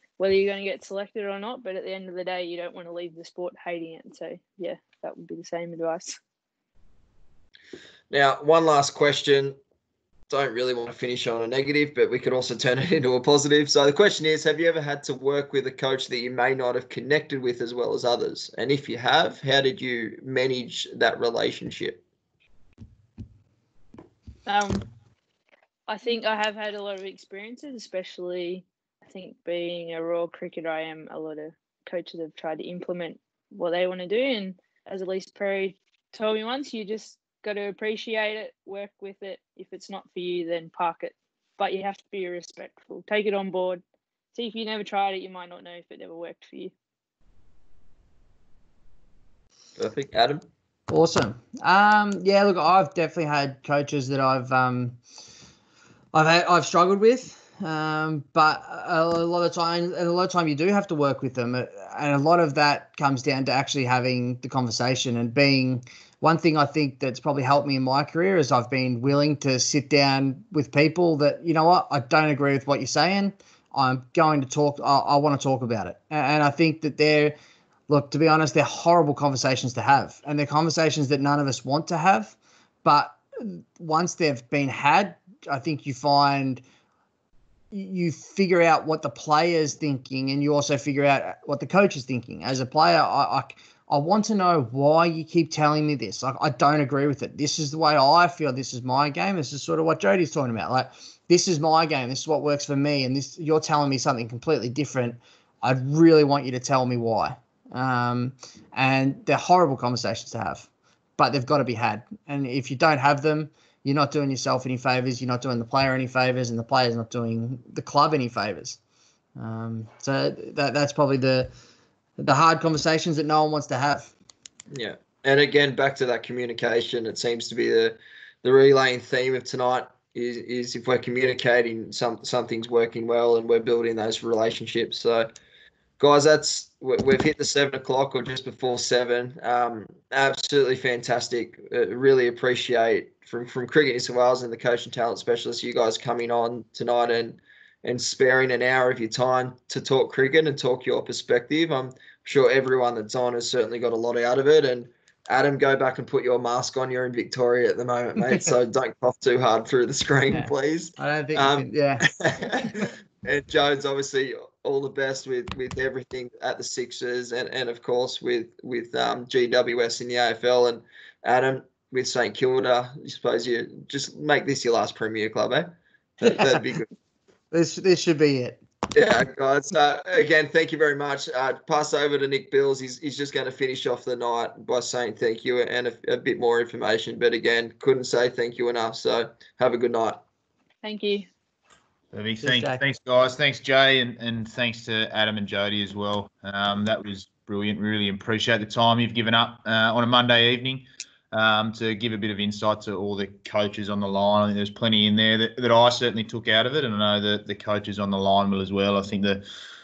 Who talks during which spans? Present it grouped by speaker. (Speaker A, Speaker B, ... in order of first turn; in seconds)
Speaker A: 0.2-6.2, 24.5-24.9, 25.9-43.8, 44.3-46.7, 190.8-191.3
Speaker B: 8.1-9.6, 10.3-22.0, 49.8-50.4, 124.7-135.3, 136.0-176.9, 178.9-190.2
Speaker C: 50.9-55.0, 56.1-77.3, 77.9-86.6, 87.7-118.8, 119.4-121.5, 122.2-124.1, 160.3-162.1, 177.5-178.6, 192.4-192.8
Speaker D: 192.1-209.4